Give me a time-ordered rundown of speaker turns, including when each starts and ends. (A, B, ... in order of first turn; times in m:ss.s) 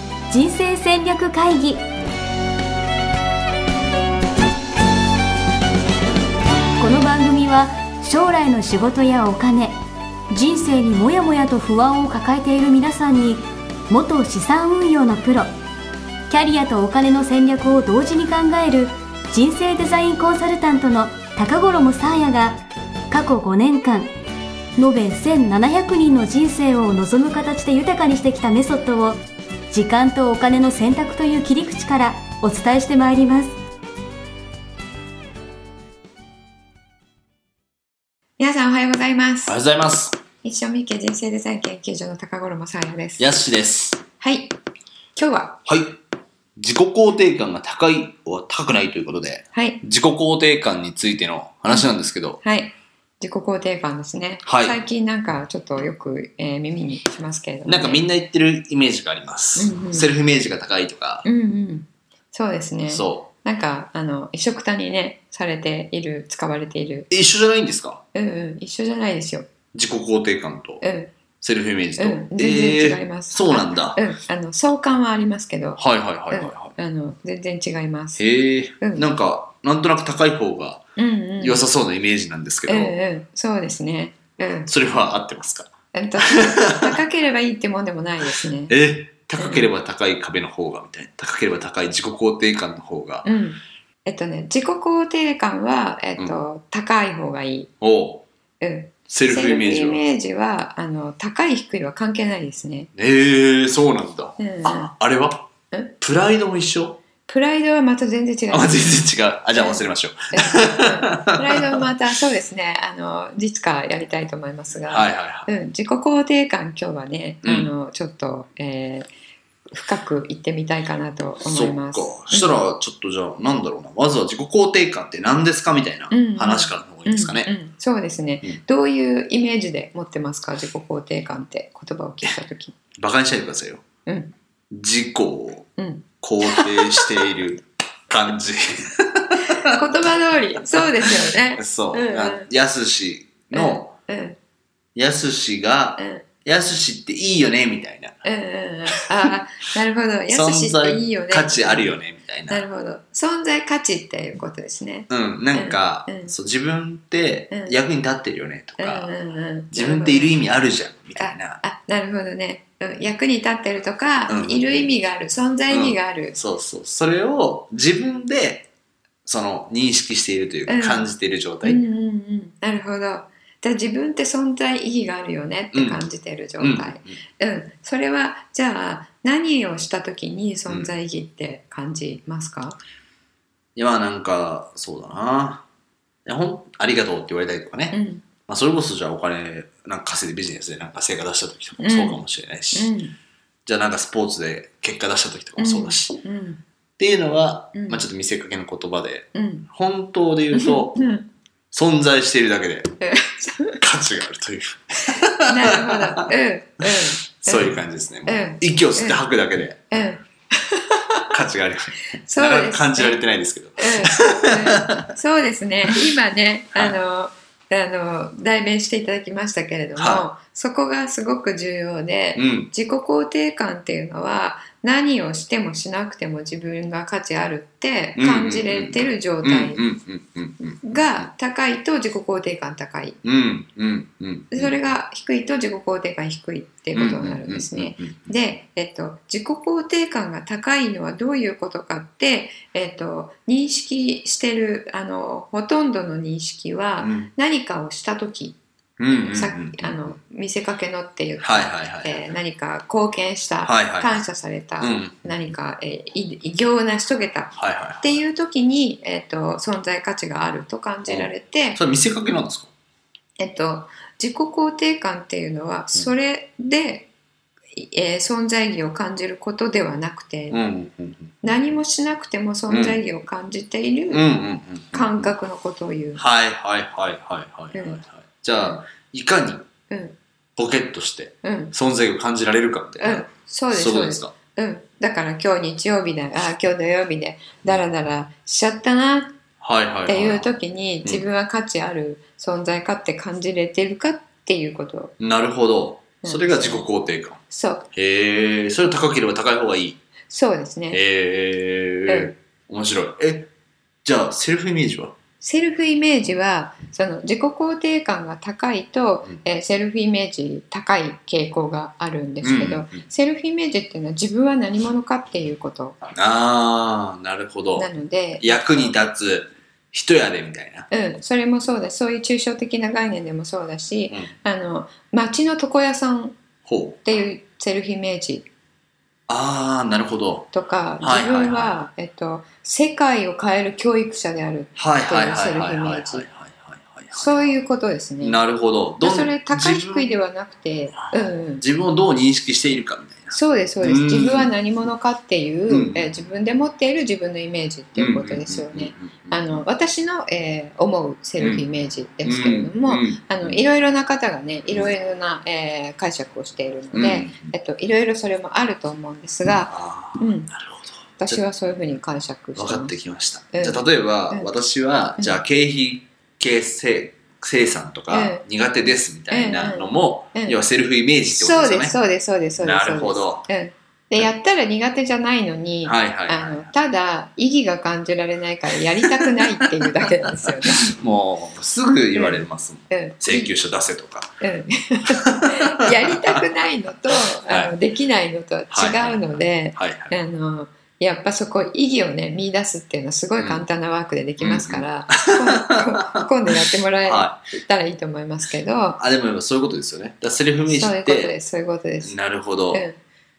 0:00.3-0:01.8 A
0:06.8-0:09.8 A
0:10.3-0:15.5 A
0:16.3-0:24.1 A
0:24.8-0:29.2 A
0:29.7-0:33.5 A
0:38.4-0:39.6 B
0:39.4-0:40.2 C
0:40.4-0:43.2 B
0:43.2-0:44.0 C
0:44.2-0:44.5 B
0:45.2-0:45.6 B
0:45.6-0:46.0 C
0:46.6-0:52.4 C
0:49.5-0:49.8 B
0:52.4-0:58.0 B
0:54.4-0:54.8 C
0:57.6-1:01.2 C
0:59.6-1:00.1 B
1:01.2-1:07.1 B
1:02.9-1:03.3 C
1:07.1-1:08.0 C
1:08.1-1:09.5 B
1:09.7-1:10.8 C
1:10.8-1:11.1 B
1:11.4-1:14.0 C
1:12.0-1:18.2 B
1:15.8-1:16.7 C
1:18.2-1:20.9 C
1:18.8-1:19.1 B
1:21.0-1:21.6 B
1:21.4-1:22.9 C
1:22.7-1:24.7 B
1:24.7-1:26.9 C
1:25.9-1:28.8 B
1:28.7-1:33.2 C
1:29.4-1:29.7 B
1:33.2-1:37.7 B
1:37.8-1:38.2 C
1:38.6-1:42.9 B
1:39.1-1:40.0 C
1:43.0-1:45.5 C
1:44.4-1:44.9 B
1:46.0-1:47.0 C
1:47.2-1:59.1 B
1:48.5-1:51.8 C
1:54.9-1:55.5 C
1:57.4-1:57.7 C
1:59.7-2:02.6 B
2:01.4-2:07.5 C
2:06.1-2:12.8 B
2:13.0-2:13.8 C
2:14.0-2:14.3 B
2:14.7-2:15.7 C
2:15.8-2:17.2 B
2:16.2-2:19.8 C
2:19.4-2:22.5 B
2:21.0-2:23.9 C
2:23.5-2:24.4 B
2:24.9-2:28.2 C
2:26.0-2:26.2 B
2:28.2-2:36.3 B
2:30.3-2:32.6 C
2:35.1-2:39.1 C
2:37.5-2:37.8 B
2:38.8-2:40.4 B
2:39.7-2:41.6 C
2:41.2-2:46.4 B
2:44.3-2:44.9 C
2:45.7-2:48.7 C
2:49.2-2:51.8 C
2:50.7-2:51.1 B
2:51.6-3:02.8 B
2:55.7-2:56.0 C
2:56.6-2:57.2 C
3:03.8-3:05.6 C
3:06.2-3:12.9 C
3:07.9-3:08.2 B
3:11.8-3:12.2 B
3:12.7-3:13.2 B
3:13.6-3:16.2 C
3:15.6-3:16.6 B
3:17.0-3:21.1 C
3:17.7-3:18.0 B
3:19.3-3:19.7 B
3:20.5-3:21.2 B
3:21.7-3:23.0 C
3:23.0-3:23.8 B
3:23.8-3:26.3 C
3:25.4-3:29.2 B
3:26.8-3:29.8 C
3:29.9-3:31.3 B
3:31.3-3:35.1 C
3:32.2-3:33.2 B
3:33.8-3:49.8 B
3:40.0-3:40.2 C
3:42.4-3:42.7 C
3:48.2-3:51.3 C
3:50.8-3:53.2 B
3:53.2-3:54.8 C
3:54.5-4:08.6 B
3:56.9-3:58.3 C
4:07.0-4:07.3 C
4:09.0-4:10.2 C
4:09.1-4:21.8 B
4:11.4-4:12.2 C
4:13.6-4:14.2 C
4:14.8-4:15.3 C
4:17.6-4:18.2 C
4:21.1-4:22.7 C
4:23.4-4:27.1 B
4:27.7-4:30.6 B
4:30.5-4:31.3 C
4:31.4-4:34.3 B
4:32.7-4:33.0 C
4:34.1-4:35.3 C
4:34.9-4:36.2 B
4:36.2-4:39.7 C
4:37.7-4:38.0 B
4:38.6-4:38.8 B
4:39.9-4:40.2 B
4:40.6-4:44.3 C
4:41.4-4:41.7 B
4:43.0-4:49.4 B
4:49.6-4:50.5 C
4:50.1-4:55.1 B
4:55.2-4:57.4 C
4:56.2-4:56.8 B
4:57.5-4:57.9 B
4:57.9-5:00.0 C
5:00.3-5:01.0 B
5:00.9-5:03.5 C
5:02.1-5:02.3 B
5:04.0-5:05.2 C
5:05.4-5:16.0 B
5:12.4-5:13.0 C
5:16.1-5:20.9 C
5:17.7-5:18.9 B
5:20.9-5:26.4 B
5:26.6-5:27.0 C
5:27.0-5:28.5 B
5:29.3-5:31.8 C
5:30.5-5:36.3 B
5:34.8-5:37.5 C
5:37.1-5:38.4 B
5:38.2-5:40.1 C
5:39.0-5:41.6 B
5:41.0-5:44.5 C
5:43.3-6:00.5 B
5:45.7-5:46.1 C
5:48.0-5:49.4 C
5:52.2-5:53.6 C
5:56.9-5:57.5 C
5:59.4-6:01.4 C
6:01.2-6:02.9 B
6:02.6-6:12.0 C
6:03.5-6:04.5 B
6:08.1-6:08.4 B
6:09.3-6:10.6 B
6:11.3-6:20.9 B
6:12.6-6:13.5 C
6:15.8-6:16.7 C
6:19.0-6:24.4 C
6:22.1-6:23.5 B
6:24.4-6:39.0 B
6:25.1-6:26.4 C
6:27.4-6:27.7 C
6:28.7-6:30.1 C
6:33.4-6:33.6 C
6:34.4-6:37.4 C
6:39.0-6:41.3 C
6:40.7-6:42.1 B
6:42.0-6:42.8 C
6:42.7-6:43.0 B